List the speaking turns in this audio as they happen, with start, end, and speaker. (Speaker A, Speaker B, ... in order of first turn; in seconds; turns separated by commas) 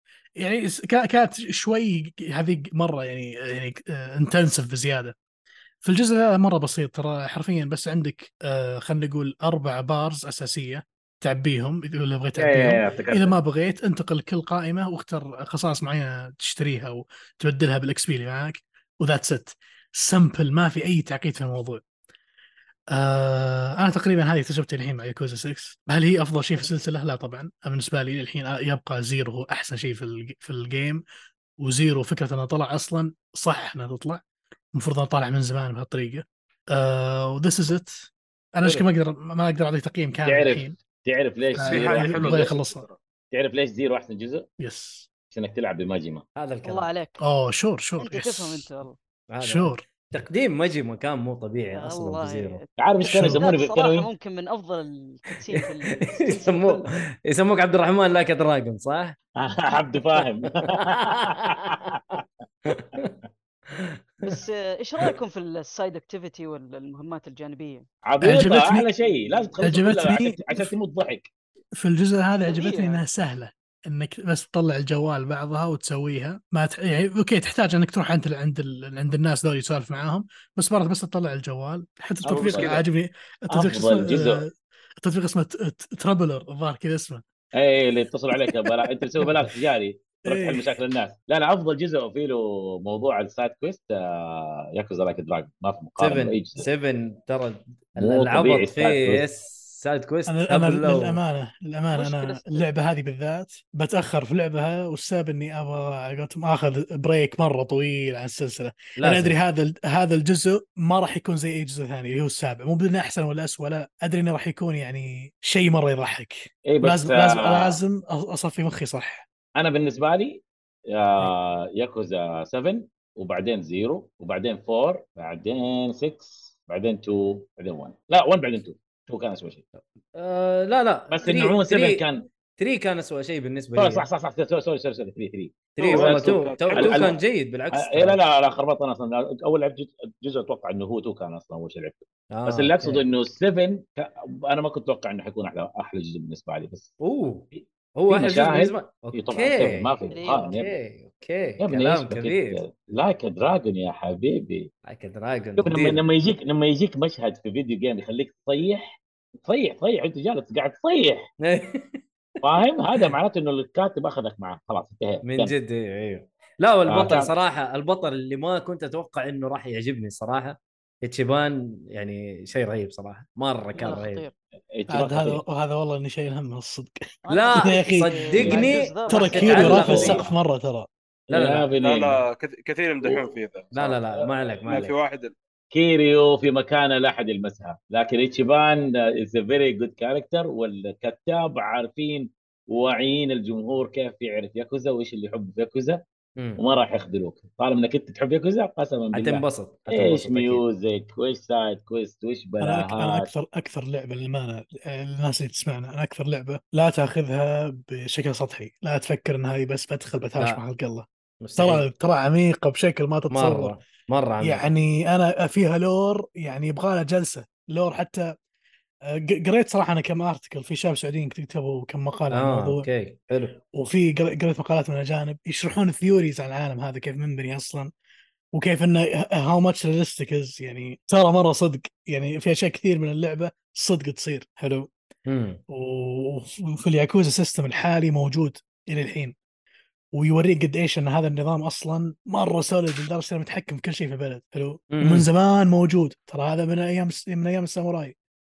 Speaker A: 0.4-5.1, Speaker A: 5.8-21.8, Speaker B: 12.3-13.3, Speaker A: 22.9-31.0, Speaker A: 31.6-34.2, Speaker A: 34.7-40.7, Speaker B: 40.2-42.5, Speaker A: 41.5-42.9, Speaker C: 41.6-43.0, Speaker B: 43.3-44.5, Speaker A: 44.6-45.1, Speaker B: 45.3-46.2, Speaker D: 46.4-46.9, Speaker E: 46.6-47.2, Speaker A: 47.2-48.7, Speaker E: 48.0-49.0, Speaker D: 49.3-52.6, Speaker A: 49.4-49.8, Speaker E: 51.7-52.7, Speaker B: 52.8-54.1, Speaker A: 53.0-53.4, Speaker E: 53.2-56.9, Speaker D: 55.5-59.1, Speaker B: 59.4-62.0, Speaker D: 60.7-61.8, Speaker D: 62.7-63.1, Speaker D: 63.7-64.3, Speaker E: 64.2-67.8, Speaker B: 68.0-71.3, Speaker A: 68.2-68.9, Speaker A: 69.6-70.7, Speaker A: 71.8-87.2, Speaker B: 82.2-82.8, Speaker C: 82.4-82.8, Speaker B: 83.5-84.4, Speaker B: 87.5-96.7, Speaker A: 90.2-90.7, Speaker D: 96.0-101.2, Speaker B: 98.0-99.3, Speaker A: 100.3-119.3, Speaker E: 101.9-102.7, Speaker D: 109.0-109.4, Speaker B: 116.7-117.8, Speaker B: 119.5-129.6, Speaker D: 129.8-132.0, Speaker B: 131.1-132.2, Speaker D: 132.6-134.1, Speaker B: 133.8-137.1, Speaker D: 135.8-138.2, Speaker C: 135.8-137.2, Speaker B: 137.7-147.0, Speaker D: 142.3-143.1, Speaker D: 147.0-152.6, Speaker B: 147.5-150.7, Speaker E: 150.1-150.6, Speaker B: 151.6-154.7, Speaker D: 154.8-156.0, Speaker B: 155.6-161.3, Speaker D: 161.4-162.0, Speaker B: 162.4-165.5, Speaker D: 165.2-174.2, Speaker B: 166.9-167.3, Speaker E: 173.8-174.3, Speaker B: 174.7-175.4, Speaker A: 174.9-177.0, Speaker E: 177.2-180.2, Speaker D: 177.3-180.3, Speaker A: 177.5-180.9, Speaker B: 178.4-178.8, Speaker B: 179.4-180.3, Speaker B: 181.3-182.2, Speaker D: 181.3-181.7, Speaker C: 181.8-184.0, Speaker B: 183.0-183.3, Speaker D: 183.7-184.9, Speaker C: 184.6-185.3, Speaker B: 185.7-196.0, Speaker B: 196.6-203.3, Speaker D: 199.1-200.6, Speaker A: 202.6-211.1, Speaker D: 211.4-211.8, Speaker A: 211.6-213.8, Speaker D: 213.3-214.6, Speaker A: 214.4-218.3, Speaker A: 219.2-222.9, Speaker D: 222.3-223.6, Speaker A: 223.7-227.9, Speaker A: 228.5-234.9, Speaker D: 235.3-235.6, Speaker A: 235.7-239.3, Speaker A: 240.1-248.1, Speaker D: 244.9-245.3